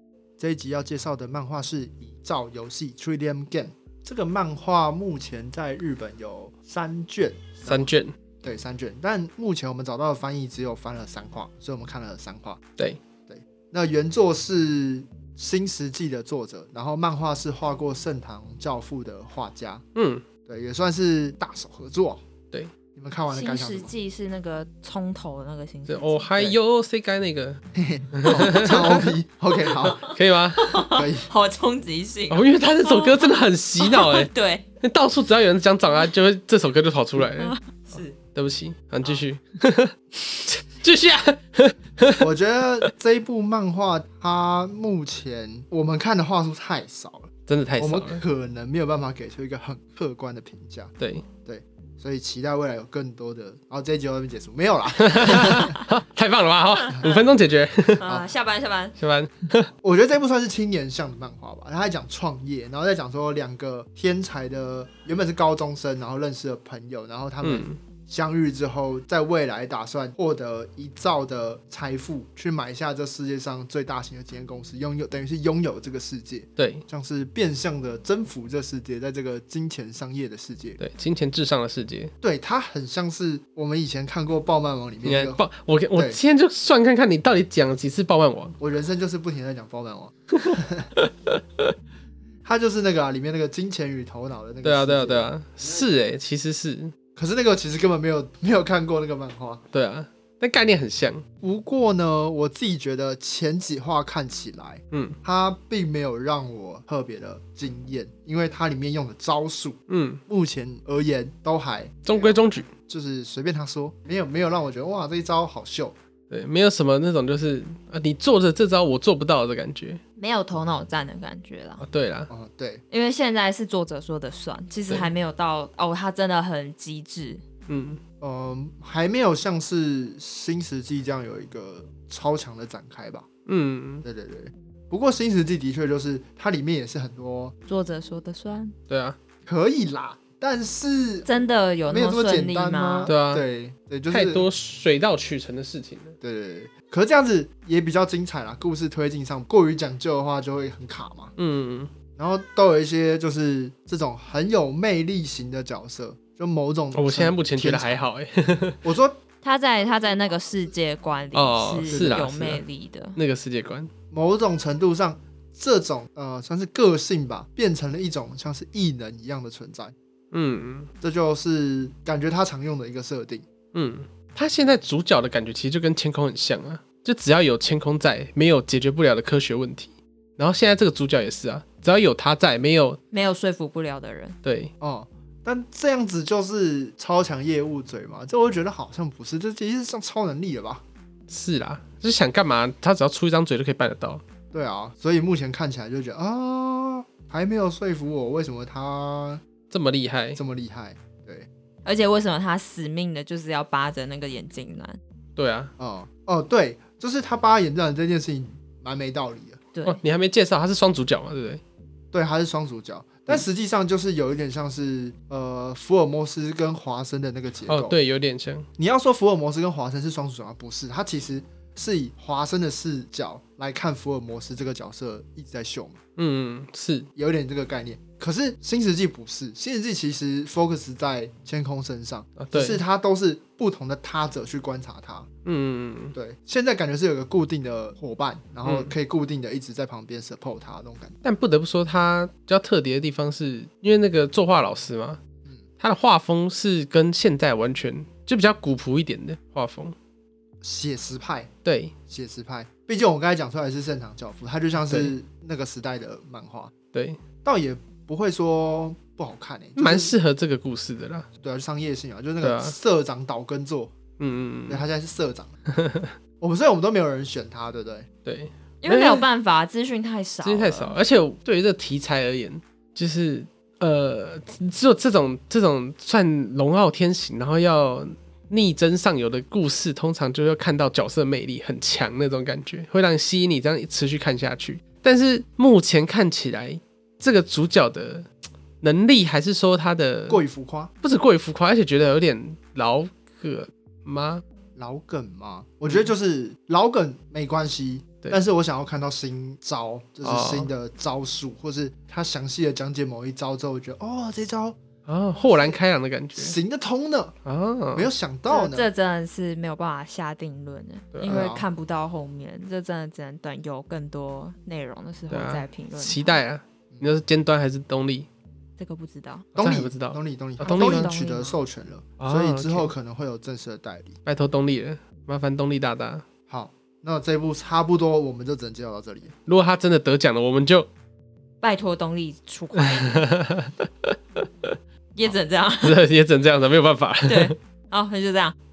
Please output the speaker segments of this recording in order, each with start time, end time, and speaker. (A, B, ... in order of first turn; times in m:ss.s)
0:00.4-0:07.9 A
0:07.6-0:08.1 B
0:08.4-0:12.6 A
0:13.3-0:19.8 A
0:19.9-0:20.2 B
0:20.4-0:22.2 A
0:22.9-0:23.9 A
0:23.3-0:26.3 C
0:25.8-0:27.6 B
0:27.7-0:30.1 A
0:28.1-0:29.1 B
0:30.0-0:30.7 B
0:30.6-0:34.6 C
0:30.8-0:31.3 A
0:32.3-0:34.3 B
0:34.8-0:37.6 B
0:37.3-0:38.2 C
0:38.2-0:42.3 B
0:42.2-0:55.8 A
0:47.5-0:48.2 B
0:51.0-0:51.2 B
0:55.0-0:58.0 B
0:58.0-0:58.9 C
0:59.0-0:59.7 B
0:59.8-1:20.8 A
1:07.4-1:07.8 B
1:16.6-1:16.8 B
1:20.8-1:22.1 B
1:22.2-1:25.4 A
1:25.0-1:28.6 B
1:28.6-1:30.9 A
1:30.4-1:31.7 B
1:32.4-1:35.3 A
1:34.6-1:36.9 B
1:37.1-1:39.6 A
1:39.7-1:41.2 B
1:41.4-1:56.0 A
1:44.9-1:45.2 B
1:49.9-1:50.2 B
1:52.0-1:52.7 B
1:56.3-2:00.0 B
2:00.2-2:01.8 C
2:01.8-2:02.3 B
2:02.3-2:02.8 A
2:02.9-2:07.4 C
2:07.7-2:08.0 B
2:08.2-2:13.3 A
2:13.4-2:14.0 B
2:14.0-2:17.5 A
2:17.7-2:18.7 C
2:18.9-2:19.2 B
2:19.4-2:24.4 A
2:21.2-2:23.1 C
2:23.0-2:23.4 B
2:24.1-2:26.2 B
2:26.2-2:31.3 A
2:31.4-2:31.9 B
2:32.2-2:38.0 A
2:36.9-2:38.8 B
2:38.8-2:39.2 A
2:39.4-2:43.2 C
2:39.8-2:40.7 A
2:41.3-2:42.6 B
2:41.9-2:42.3 A
2:43.2-2:43.9 B
2:44.1-2:49.9 A
2:50.3-2:50.9 B
2:51.0-2:53.4 A
2:53.7-3:03.0 B
3:03.1-3:04.4 C
3:04.4-3:04.7 B
3:04.8-3:10.8 A
3:11.3-3:14.2 B
3:14.5-3:19.4 A
3:19.7-3:20.4 B
3:20.3-3:21.5 A
3:21.8-3:25.0 C
3:25.4-3:25.7 B
3:25.8-3:29.6 A
3:29.7-3:30.0 C
3:29.8-3:31.6 B
3:32.1-3:38.0 A
3:37.7-3:38.7 B
3:38.8-3:46.0 A
3:46.2-3:47.1 B
3:47.1-3:55.3 A
3:52.4-3:52.8 B
3:55.4-3:56.1 B
3:56.1-4:01.2 A
3:58.6-3:58.9 B
4:01.2-4:05.2 B
4:05.8-4:09.9 B
4:10.6-4:11.5 A
4:11.6-4:11.9 B
4:12.1-4:16.7 A
4:14.8-4:15.1 B
4:16.9-4:17.2 B
4:17.4-4:20.2 A
4:19.8-4:21.3 B
4:21.4-4:23.9 A
4:22.4-4:22.7 B
4:24.2-4:24.8 B
4:24.7-4:25.5 A
4:25.7-4:26.1 B
4:26.4-4:28.1 A
4:28.2-4:29.3 B
4:28.8-4:31.0 C
4:30.4-4:48.3 B
4:48.8-4:50.4 B
4:50.3-4:50.9 A
4:51.0-4:54.4 B
4:54.8-5:04.8 A
5:00.2-5:00.7 B
5:05.0-5:06.6 B
5:05.3-5:05.8 A
5:06.3-5:07.4 A
5:07.4-5:08.1 B
5:07.9-5:08.9 A
5:08.5-5:16.4 C
5:11.1-5:11.4 B
5:11.2-5:11.6 A
5:15.3-5:18.3 B
5:18.8-5:19.5 C
5:19.5-5:21.1 B
5:19.6-5:24.2 A
5:20.6-5:21.6 C
5:22.2-5:22.9 B
5:24.2-5:26.2 B
5:26.5-5:29.3 A
5:29.4-5:30.9 B
5:31.6-5:33.3 C
5:32.7-5:34.7 B
5:35.1-5:36.0 C
5:35.8-5:37.6 B
5:37.2-5:38.5 C